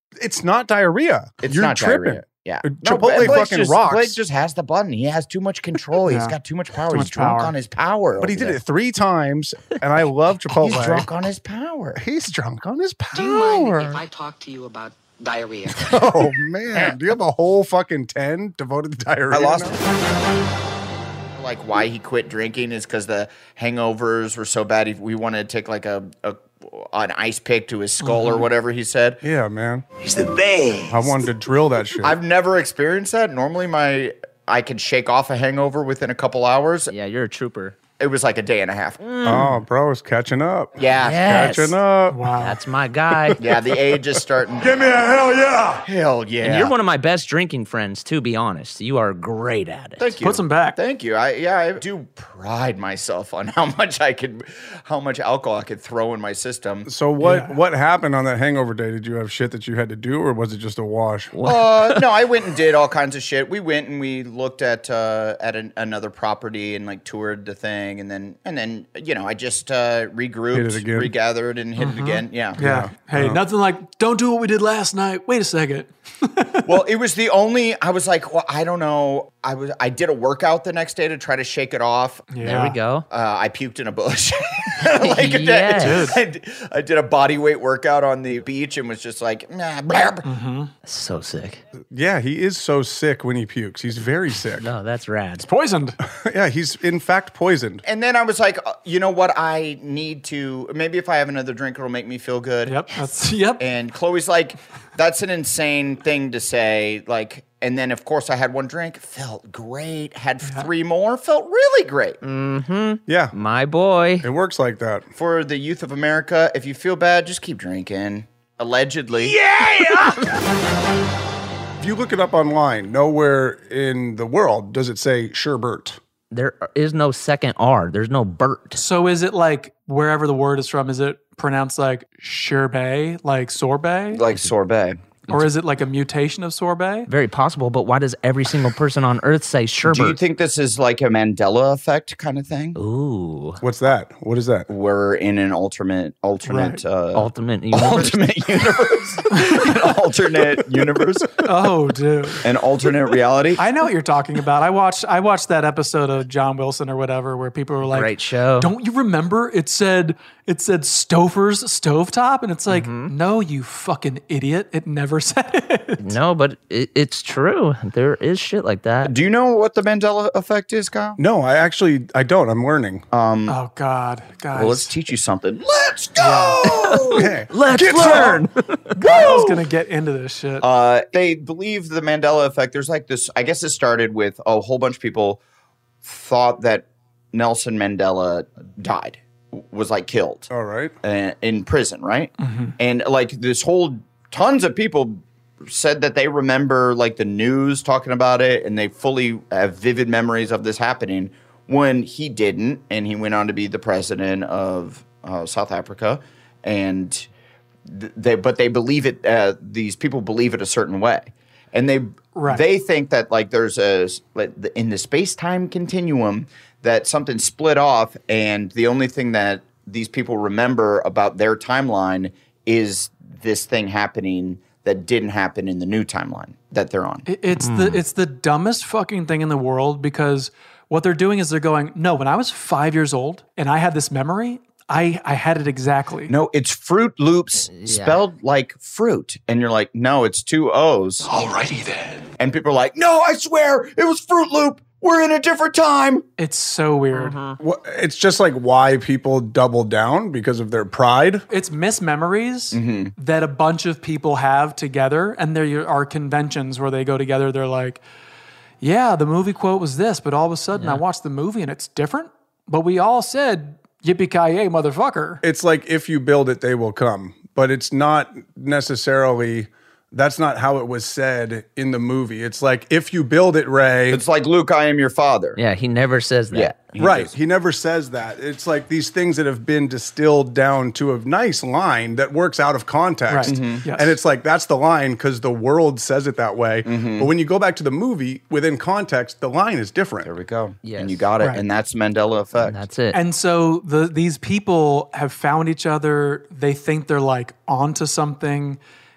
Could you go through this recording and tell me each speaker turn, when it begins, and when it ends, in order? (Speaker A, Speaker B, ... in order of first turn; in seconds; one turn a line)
Speaker A: 0.2-4.2
Speaker B: 1.4-8.6
Speaker C: 6.0-6.4
Speaker C: 6.9-7.5
Speaker A: 8.2-11.1
Speaker B: 10.6-12.0
Speaker A: 12.0-14.0
Speaker D: 13.1-15.9
Speaker A: 15.7-19.8
Speaker B: 19.3-19.8
Speaker B: 21.4-29.2
Speaker C: 28.0-28.5
Speaker A: 29.2-29.9
Speaker A: 30.9-32.2
Speaker B: 32.0-36.9
Speaker E: 36.9-37.8
Speaker B: 38.0-39.0
Speaker E: 39.0-39.5
Speaker A: 39.2-42.2
Speaker B: 40.8-41.5
Speaker E: 41.0-41.8
Speaker C: 42.1-42.6
Speaker E: 42.4-43.4
Speaker A: 43.1-43.6
Speaker B: 43.4-44.8
Speaker A: 44.6-45.9
Speaker B: 45.9-46.7
Speaker E: 46.4-50.1
Speaker B: 50.0-56.9
Speaker C: 50.2-50.8
Speaker A: 56.9-61.3
Speaker C: 57.2-57.6
Speaker E: 61.3-62.0
Speaker B: 61.5-72.7
Speaker A: 70.5-71.1
Speaker C: 71.8-76.8
Speaker A: 72.6-73.4
Speaker B: 76.7-82.3
Speaker C: 82.3-82.8
Speaker E: 82.4-83.1
Speaker B: 83.1-90.2
Speaker E: 84.8-86.2
Speaker C: 85.7-86.2
Speaker C: 90.2-90.7
Speaker E: 90.8-91.6
Speaker A: 91.9-94.7
Speaker E: 94.6-95.5
Speaker C: 95.4-96.0
Speaker A: 96.1-97.8
Speaker B: 97.8-102.9
Speaker C: 102.7-103.6
Speaker B: 103.6-112.2
Speaker C: 110.4-110.7
Speaker E: 112.2-114.3
Speaker A: 113.1-113.3
Speaker A: 114.2-115.1
Speaker B: 115.2-119.4
Speaker A: 119.5-120.2
Speaker A: 121.8-126.0
Speaker E: 126.3-128.8
Speaker C: 128.8-134.2
Speaker B: 134.1-135.0
Speaker C: 135.3-137.1
Speaker E: 137.1-140.2
Speaker B: 139.8-142.8
Speaker E: 142.8-143.6
Speaker A: 143.6-144.7
Speaker B: 144.7-151.5
Speaker C: 146.4-146.8
Speaker E: 147.1-148.2
Speaker C: 149.3-149.9
Speaker C: 151.4-152.4
Speaker B: 152.4-153.6
Speaker C: 153.6-166.2
Speaker E: 157.9-158.7
Speaker E: 162.7-163.1
Speaker E: 166.0-169.2
Speaker B: 169.0-171.2
Speaker A: 171.2-173.0
Speaker B: 173.1-173.6
Speaker C: 173.5-174.9
Speaker B: 174.6-177.3
Speaker C: 176.2-176.7
Speaker E: 176.8-178.9
Speaker A: 177.2-178.5
Speaker C: 179.0-180.7
Speaker A: 179.0-179.3
Speaker B: 180.6-185.4
Speaker B: 186.0-190.5
Speaker A: 190.5-190.9
Speaker B: 191.0-207.3
Speaker C: 192.4-192.8
Speaker B: 207.9-227.2
Speaker C: 212.3-212.7
Speaker C: 227.3-236.3
Speaker E: 227.6-228.0
Speaker B: 236.3-241.7
Speaker E: 237.7-238.2
Speaker B: 242.4-246.2
Speaker C: 246.4-247.4
Speaker E: 247.1-247.6
Speaker A: 247.6-251.4
Speaker C: 251.5-258.0
Speaker B: 252.7-253.1
Speaker C: 258.8-265.4
Speaker E: 260.7-261.0
Speaker A: 265.4-274.2
Speaker B: 274.1-275.6
Speaker E: 275.6-276.8
Speaker B: 276.5-277.3
Speaker A: 276.9-290.3
Speaker C: 283.3-284.2
Speaker B: 283.4-283.9
Speaker B: 286.9-287.3
Speaker B: 290.2-292.8
Speaker E: 290.8-291.3
Speaker C: 291.4-291.6
Speaker E: 292.6-293.2
Speaker C: 293.1-298.8